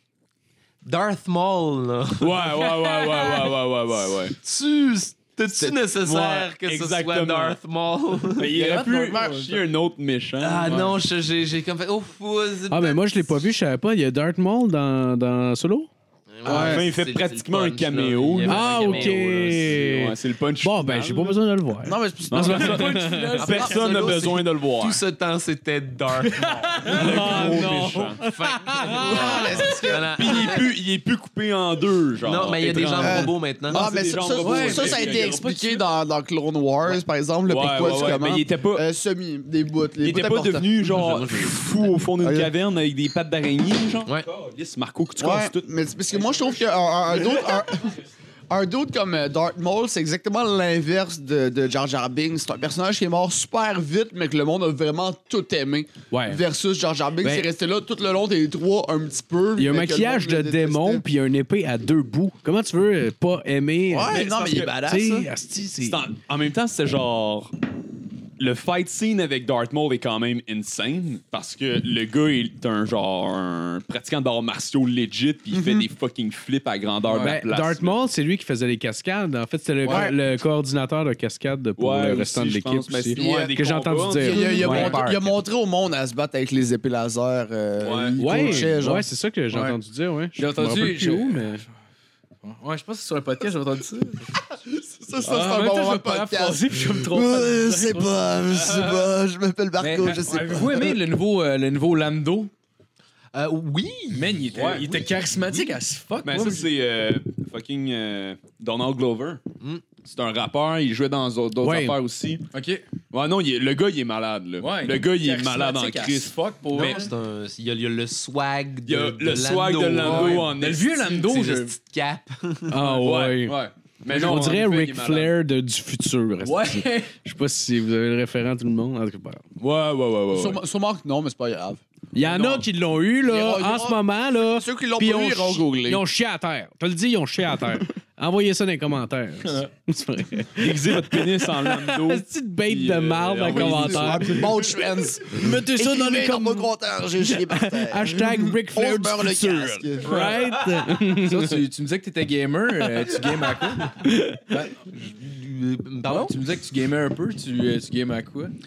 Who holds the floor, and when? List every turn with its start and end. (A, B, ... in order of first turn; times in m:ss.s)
0:00.8-0:03.5 A
0:02.2-0:04.4 B
0:04.1-0:08.5 A
0:05.6-0:07.6 B
0:08.4-0:10.9 B
0:08.4-0:09.6 C
0:10.4-0:13.4 A
0:12.7-0:15.9 D
0:16.3-0:19.8 A
0:16.4-0:21.4 B
0:16.5-0:16.8 D
0:18.5-0:23.4 D
0:21.8-0:22.8 E
0:22.3-0:25.0 B
0:22.4-0:24.2 C
0:23.4-0:30.7 A
0:26.7-0:27.4 C
0:26.9-0:28.2 B
0:26.9-0:29.8 D
0:29.0-0:30.6 E
0:29.1-0:35.4 B
0:32.2-0:33.8 A
0:33.0-0:40.7 E
0:34.4-0:35.9 C
0:37.5-0:38.8 B
0:40.0-0:45.7 B
0:40.8-0:42.0 A
0:42.2-0:42.5 E
0:45.2-0:48.0 E
0:48.5-1:01.0 E
0:56.1-0:56.4 D
0:59.6-1:06.0 D
1:03.9-1:05.3 E
1:04.1-1:04.8 B
1:05.8-1:07.5 B
1:08.4-1:17.9 B
1:15.5-1:15.9 E
1:17.2-1:25.0 D
1:19.9-1:20.2 E
1:21.8-1:25.3 B
1:23.2-1:23.5 E
1:24.2-1:29.1 E
1:27.8-1:28.7 B
1:28.2-1:31.6 D
1:29.5-1:29.8 C
1:30.4-1:31.6 C
1:32.4-1:34.3 C
1:34.5-1:41.0 E
1:35.2-1:38.3 C
1:38.6-1:39.1 B
1:39.8-1:42.5 C
1:43.3-1:45.7 A
1:44.1-1:46.7 C
1:44.5-1:45.0 B
1:46.2-1:49.4 B
1:50.0-1:52.4 B
1:51.6-1:52.0 D
1:52.5-1:52.8 C
1:53.1-1:57.0 B
1:54.6-1:57.1 C
1:56.7-2:02.8 A
1:58.9-2:00.9 B
2:00.0-2:01.8 C
2:02.7-2:03.6 D
2:03.0-2:03.5 B
2:03.0-2:04.4 C
2:04.0-2:05.3 B
2:04.1-2:09.4 D
2:06.4-2:07.1 C
2:09.6-2:10.6 B
2:10.3-2:11.8 E
2:12.1-2:24.7 D
2:13.2-2:16.0 E
2:19.4-2:19.7 C
2:20.6-2:24.6 B
2:23.4-2:30.3 E
2:25.2-2:31.6 D
2:30.0-2:30.9 B
2:31.2-2:34.8 C
2:33.9-2:34.4 D
2:34.9-2:36.4 A
2:36.0-2:38.5 C